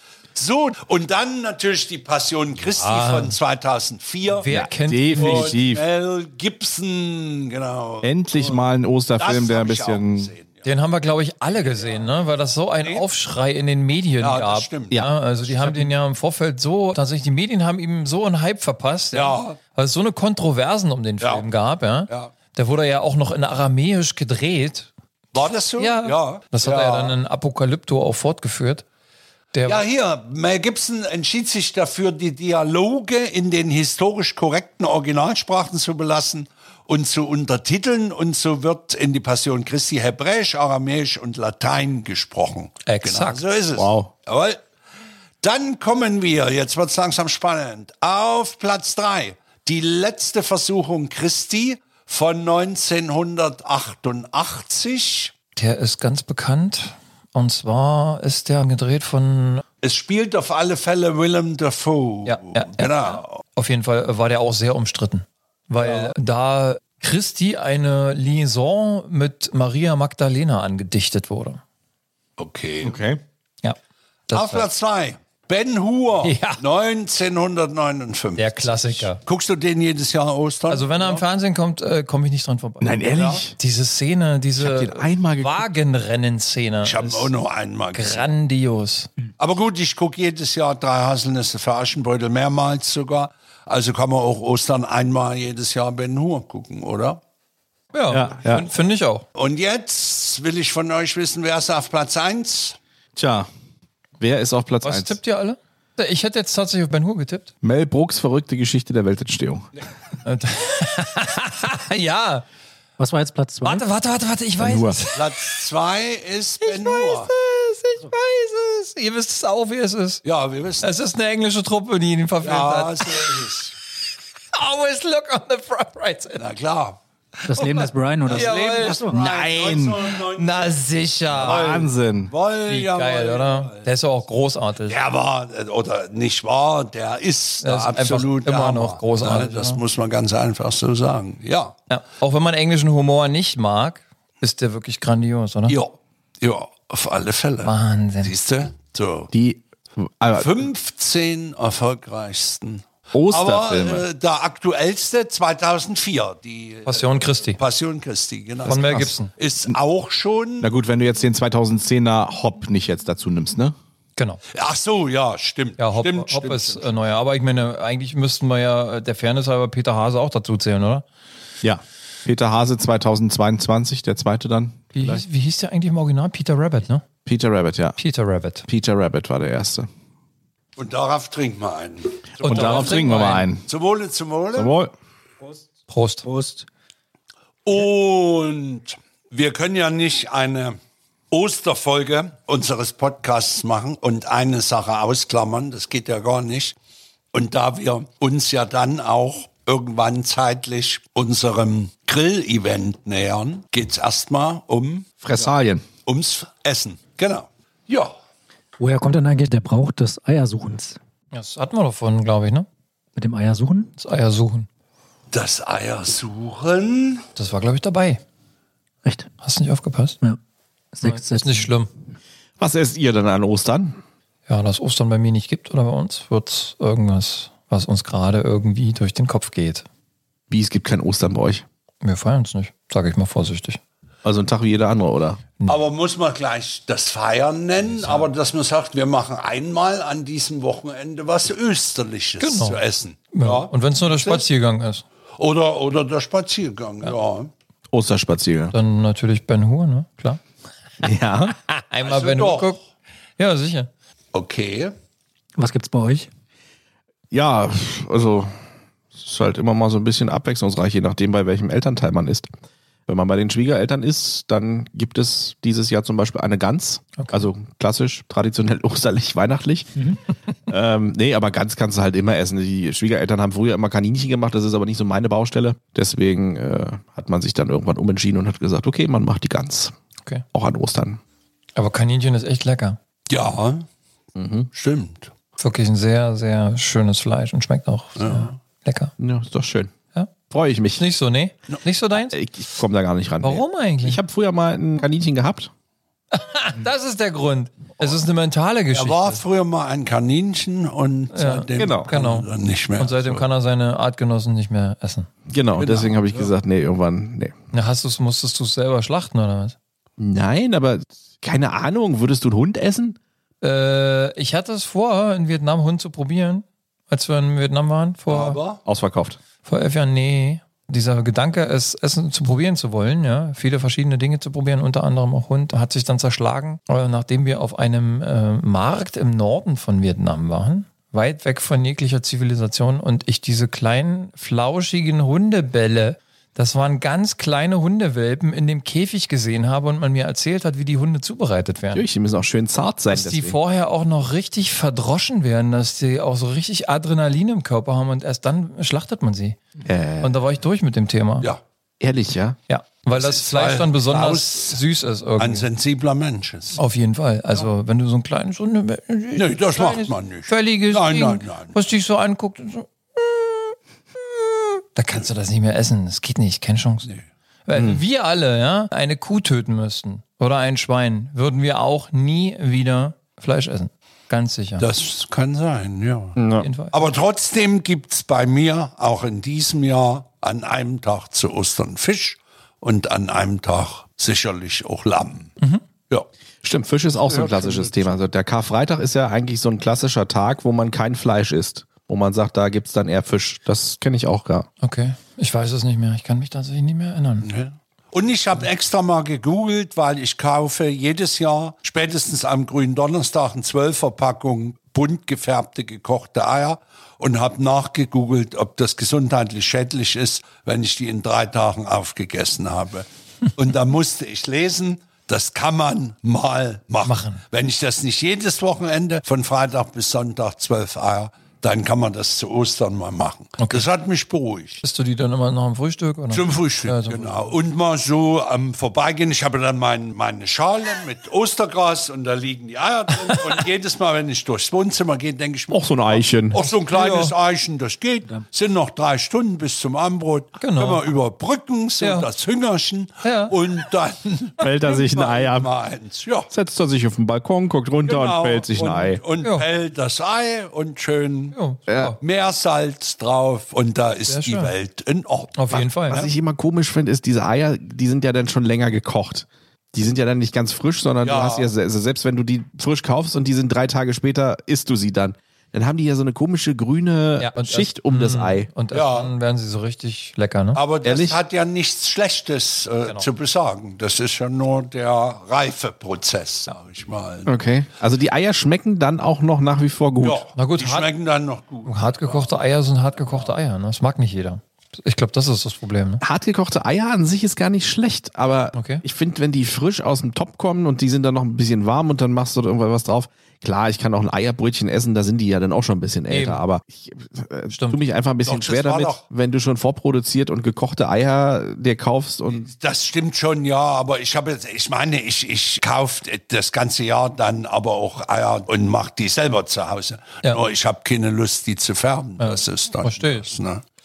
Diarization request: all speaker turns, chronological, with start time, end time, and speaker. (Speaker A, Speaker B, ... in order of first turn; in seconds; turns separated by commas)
Speaker A: 0.3-4.5, Speaker B: 2.7-3.4, Speaker B: 4.3-5.6, Speaker C: 4.5-5.8, Speaker A: 5.2-8.6, Speaker C: 8.0-10.3, Speaker A: 9.2-10.7, Speaker B: 10.6-24.9, Speaker A: 11.6-12.1, Speaker A: 14.2-15.9, Speaker A: 19.1-19.6, Speaker A: 21.2-21.5, Speaker A: 25.3-27.2, Speaker B: 25.8-28.8, Speaker B: 29.5-29.9, Speaker A: 29.7-44.6, Speaker B: 42.9-43.4, Speaker C: 43.8-44.1, Speaker A: 45.4-55.3, Speaker B: 55.6-59.6, Speaker A: 59.8-63.4, Speaker B: 62.3-71.6, Speaker A: 72.4-73.0, Speaker C: 72.8-73.2, Speaker B: 74.3-74.7, Speaker A: 74.3-81.2, Speaker B: 76.2-76.6, Speaker B: 78.4-79.2, Speaker B: 80.7-87.3, Speaker C: 82.8-83.6, Speaker A: 83.1-83.4, Speaker C: 84.6-85.7, Speaker A: 86.8-88.2, Speaker B: 87.9-89.1, Speaker A: 89.4-97.2, Speaker B: 97.9-99.2, Speaker C: 98.1-98.7, Speaker A: 99.3-102.8, Speaker C: 103.2-103.5, Speaker C: 104.2-105.2, Speaker B: 104.8-107.5, Speaker C: 107.6-109.7, Speaker B: 110.2-112.5, Speaker D: 113.0-113.8, Speaker B: 113.6-115.5, Speaker C: 114.6-115.0, Speaker A: 115.2-117.3, Speaker B: 116.6-120.2, Speaker A: 120.2-120.9, Speaker B: 120.8-123.3, Speaker A: 122.4-123.8, Speaker B: 124.5-126.5, Speaker A: 126.4-127.0, Speaker D: 127.5-129.2, Speaker B: 127.6-129.2, Speaker A: 128.2-130.8, Speaker C: 129.1-130.2, Speaker B: 130.3-131.8, Speaker A: 131.3-133.9, Speaker C: 131.3-132.3, Speaker B: 132.7-135.0, Speaker A: 134.9-141.8, Speaker B: 137.6-139.8, Speaker B: 141.9-145.8, Speaker A: 145.7-147.7, Speaker B: 147.6-148.3, Speaker A: 148.2-149.3, Speaker C: 149.3-150.5, Speaker A: 150.4-160.7, Speaker C: 153.1-154.1, Speaker B: 156.8-157.6, Speaker B: 158.7-159.3, Speaker C: 160.6-163.8, Speaker B: 164.2-164.4, Speaker A: 164.5-167.1, Speaker B: 165.8-171.0, Speaker C: 171.6-175.2, Speaker B: 174.9-177.0, Speaker C: 177.2-178.0, Speaker B: 178.0-178.7, Speaker C: 178.7-179.9, Speaker A: 180.8-184.7, Speaker C: 182.4-183.7, Speaker B: 182.4-183.5, Speaker C: 184.5-184.9, Speaker B: 185.9-186.2, Speaker D: 186.2-186.7, Speaker A: 187.7-190.8, Speaker A: 191.3-196.8, Speaker A: 197.3-205.5, Speaker C: 205.2-205.8, Speaker A: 206.1-208.1, Speaker D: 208.8-211.0, Speaker B: 211.3-212.7, Speaker D: 213.2-213.9, Speaker B: 214.0-214.7, Speaker A: 215.3-217.2, Speaker B: 217.4-218.2, Speaker D: 219.1-219.3, Speaker B: 219.4-220.2, Speaker D: 220.9-221.7, Speaker B: 221.0-221.9, Speaker C: 222.6-224.0, Speaker B: 224.5-229.8, Speaker C: 230.5-231.7, Speaker B: 232.0-233.8, Speaker C: 234.2-235.4, Speaker A: 235.7-244.5, Speaker B: 237.8-238.3, Speaker B: 242.4-242.8, Speaker B: 243.3-245.0, Speaker A: 245.4-247.5, Speaker C: 247.9-248.7, Speaker B: 248.7-250.4, Speaker C: 251.0-251.6, Speaker B: 251.7-252.8, Speaker A: 252.0-252.7, Speaker B: 253.4-253.9, Speaker A: 254.3-254.9, Speaker D: 255.6-256.3, Speaker C: 257.3-258.5, Speaker C: 259.2-262.5, Speaker C: 263.1-279.9, Speaker C: 280.5-281.2, Speaker B: 281.8-283.0, Speaker A: 283.3-283.9, Speaker C: 284.4-284.7, Speaker A: 284.7-285.3, Speaker B: 285.6-289.1, Speaker A: 288.2-288.5, Speaker C: 289.2-289.9, Speaker C: 290.5-291.1, Speaker B: 291.0-292.4, Speaker C: 292.2-295.7, Speaker B: 293.4-294.2, Speaker B: 296.3-299.4, Speaker A: 298.9-303.5, Speaker B: 301.3-305.3, Speaker C: 301.8-302.1, Speaker C: 305.5-307.5, Speaker A: 305.8-306.5, Speaker B: 307.7-309.8, Speaker C: 310.2-313.2, Speaker B: 313.6-318.6, Speaker A: 318.3-318.8, Speaker C: 318.9-319.4, Speaker B: 319.6-342.1, Speaker C: 341.9-343.6, Speaker B: 343.1-349.6, Speaker C: 349.9-350.4, Speaker B: 350.2-351.5, Speaker C: 352.0-352.6, Speaker B: 352.7-355.7, Speaker A: 353.2-354.8, Speaker A: 355.4-356.8, Speaker B: 356.8-367.1, Speaker A: 359.4-361.8, Speaker B: 367.7-374.9, Speaker C: 367.8-368.0, Speaker A: 374.8-376.4, Speaker C: 376.4-376.7, Speaker B: 376.6-377.0, Speaker A: 376.9-385.5, Speaker C: 386.6-394.7, Speaker A: 387.2-388.2, Speaker B: 394.8-397.5, Speaker A: 397.4-424.8, Speaker B: 417.1-417.4, Speaker B: 423.6-423.9, Speaker B: 424.8-427.5, Speaker A: 426.3-446.5, Speaker C: 435.7-436.6, Speaker B: 436.6-437.4, Speaker B: 440.6-441.1, Speaker B: 442.0-442.3, Speaker B: 443.2-443.6, Speaker C: 444.6-445.7, Speaker C: 446.5-449.2, Speaker A: 448.1-451.6, Speaker B: 451.5-452.2, Speaker C: 451.9-452.2, Speaker A: 452.2-456.3, Speaker B: 454.3-454.7, Speaker B: 455.6-456.2, Speaker C: 455.7-468.7, Speaker A: 461.2-461.7, Speaker B: 467.4-470.8, Speaker A: 468.9-469.3, Speaker A: 470.8-477.5, Speaker C: 471.0-471.4, Speaker C: 477.5-480.4, Speaker A: 480.2-482.6, Speaker B: 480.6-481.1, Speaker B: 481.9-486.2, Speaker A: 483.1-483.6, Speaker C: 486.2-502.7, Speaker B: 488.8-489.0, Speaker B: 496.3-496.6, Speaker B: 497.7-498.0, Speaker A: 498.4-499.2, Speaker A: 502.5-513.8, Speaker B: 512.4-513.5